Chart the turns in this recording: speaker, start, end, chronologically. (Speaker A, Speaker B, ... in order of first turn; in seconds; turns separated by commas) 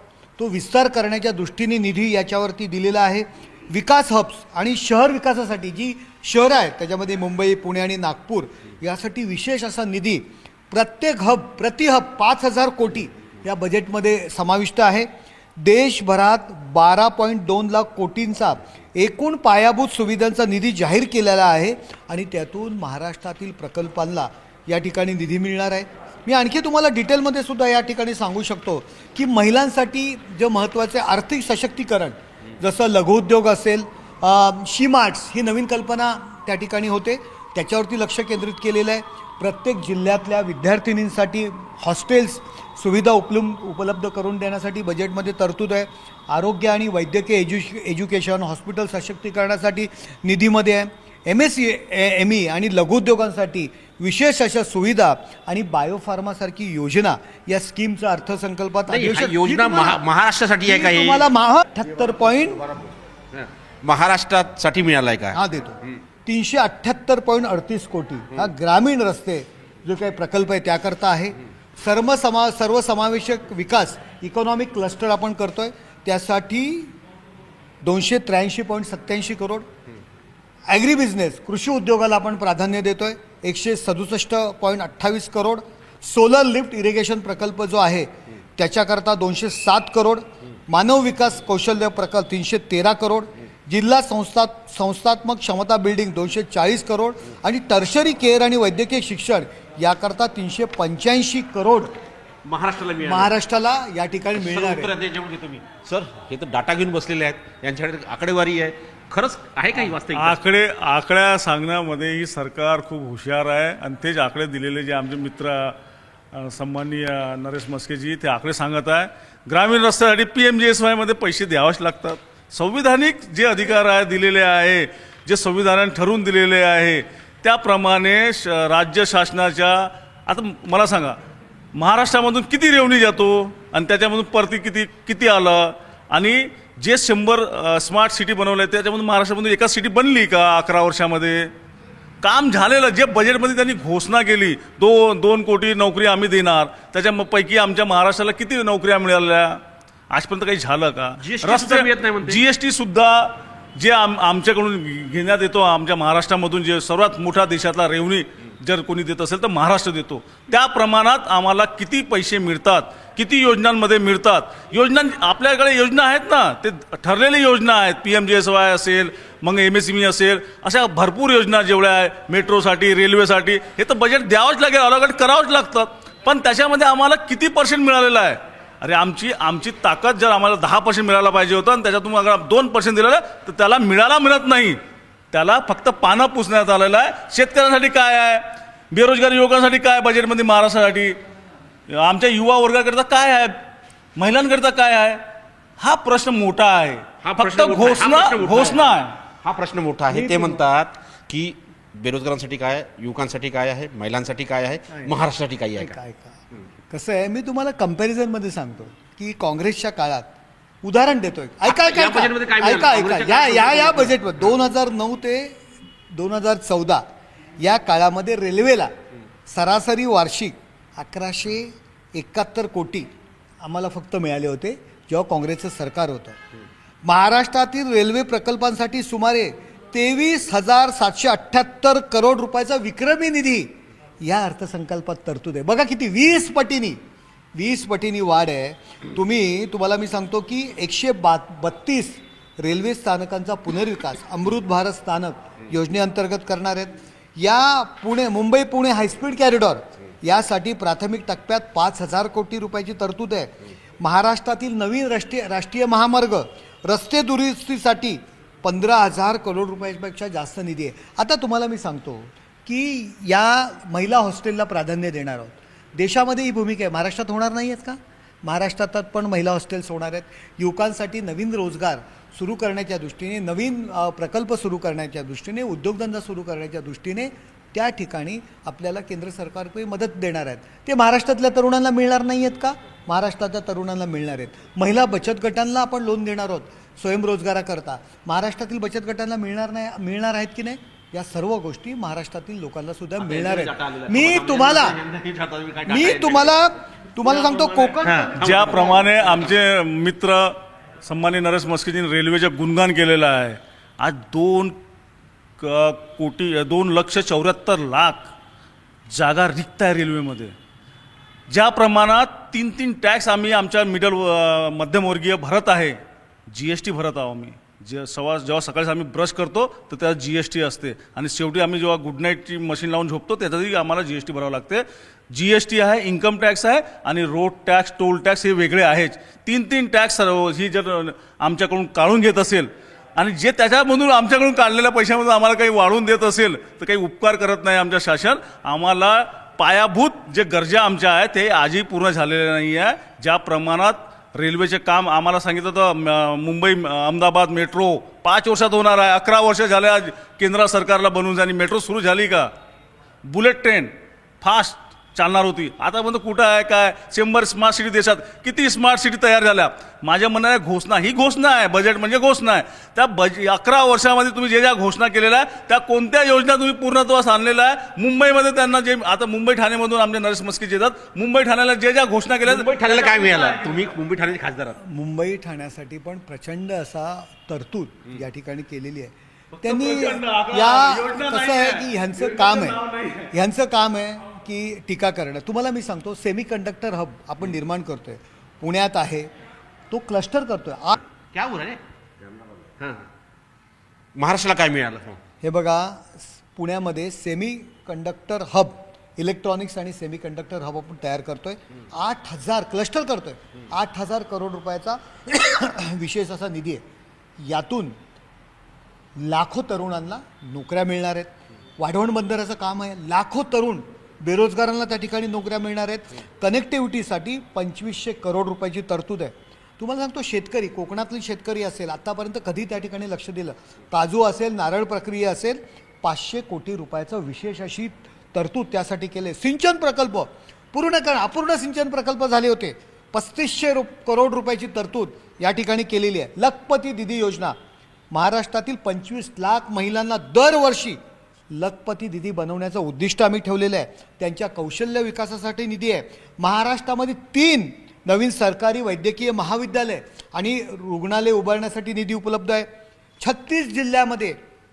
Speaker A: 0.4-60.0, Speaker B: 58.9-61.3, Speaker A: 60.6-62.7, Speaker B: 63.3-65.4, Speaker A: 65.3-76.9, Speaker A: 77.8-79.7, Speaker A: 80.7-101.9, Speaker B: 102.4-103.3, Speaker A: 103.0-104.9, Speaker B: 104.3-110.4, Speaker C: 110.1-115.8, Speaker C: 116.3-131.2, Speaker C: 131.7-141.5, Speaker C: 142.2-184.8, Speaker B: 151.2-152.4, Speaker C: 185.3-191.2, Speaker C: 191.9-193.6, Speaker C: 194.2-195.2, Speaker C: 195.8-199.2, Speaker B: 197.2-206.0, Speaker A: 200.1-200.6, Speaker A: 205.7-206.4, Speaker A: 206.9-210.3, Speaker A: 210.8-215.6, Speaker B: 211.6-214.2, Speaker A: 216.1-217.0, Speaker A: 217.6-218.9, Speaker A: 219.5-223.1, Speaker A: 223.6-226.4, Speaker A: 227.0-237.0, Speaker A: 237.5-294.9, Speaker B: 293.2-296.6, Speaker A: 295.8-298.7, Speaker B: 297.2-299.6, Speaker C: 298.3-304.7, Speaker C: 305.6-308.3, Speaker C: 309.1-310.5, Speaker C: 311.5-352.5, Speaker C: 353.2-373.8, Speaker B: 372.4-374.8, Speaker A: 374.8-382.8, Speaker C: 379.5-383.3, Speaker A: 383.3-389.3, Speaker A: 389.9-391.0, Speaker B: 391.3-391.8, Speaker B: 392.8-393.1, Speaker B: 394.1-395.2, Speaker A: 395.4-406.8, Speaker A: 407.4-407.9, Speaker A: 409.2-437.5, Speaker A: 438.1-441.0, Speaker A: 441.5-452.7, Speaker A: 453.2-454.4